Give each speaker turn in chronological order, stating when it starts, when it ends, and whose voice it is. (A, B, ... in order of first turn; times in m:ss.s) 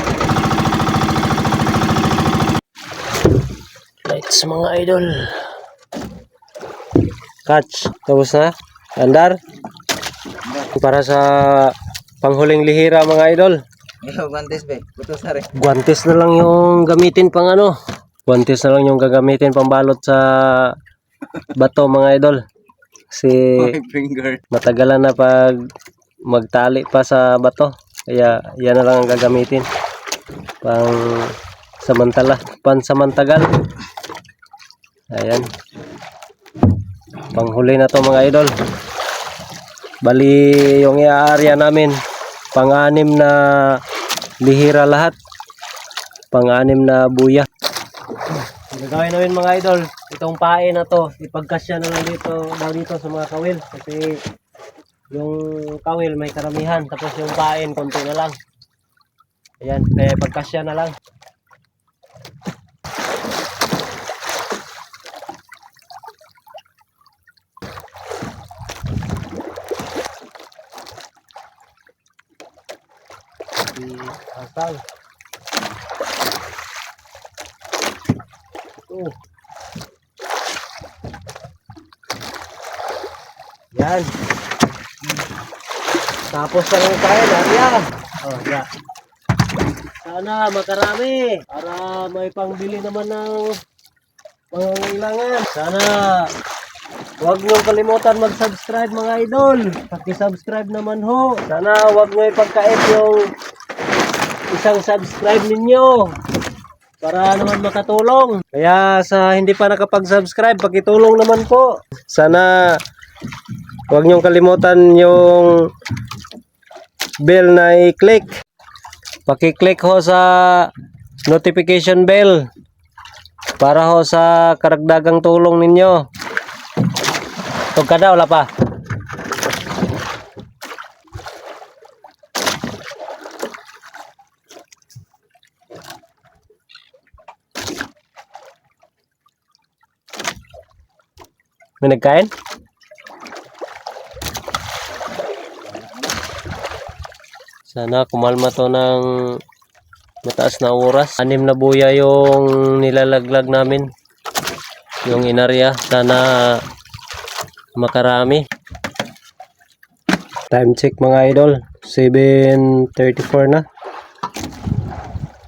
0:04.0-0:05.5 A
0:07.4-0:09.4 A
0:10.4-0:10.7 B
0:10.8-0:13.6 A
0:14.0-0:15.5 B
0:15.6-0:17.7 A
0:18.2-0:20.7 A
0:21.6-0:22.4 A
0:23.1-0:23.7 A
0:23.6-0:24.4 B
0:24.5-0:25.6 A
0:26.3-0:29.6 A
0:30.6-0:33.5 A
0:35.1-0:35.5 A
0:37.3-0:38.5 A
0:40.0-0:42.0 A
0:42.5-0:43.8 A
0:44.4-0:45.2 A
0:46.3-0:47.5 A
0:48.7-0:54.2 A
0:55.1-0:58.4 A
0:59.6-1:00.9 A
1:13.7-1:14.8 A
1:18.9-1:19.1 A
1:23.7-1:24.1 A
1:26.3-1:28.7 A
1:30.0-1:33.6 A
1:34.5-1:36.3 A
1:37.2-1:43.3 A
1:44.5-1:46.1 A
1:47.0-1:52.8 A
1:53.9-1:55.7 A
1:57.2-1:58.3 A
1:59.2-2:00.7 A
2:01.3-2:02.4 A
2:03.6-2:06.0 A
2:07.7-2:08.5 A
2:21.8-2:22.3 A
2:25.7-2:25.9 B
2:27.7-2:29.1 A
2:30.2-2:33.9 A
2:35.0-2:36.6 A
2:37.8-2:38.4 A
2:40.5-2:43.6 A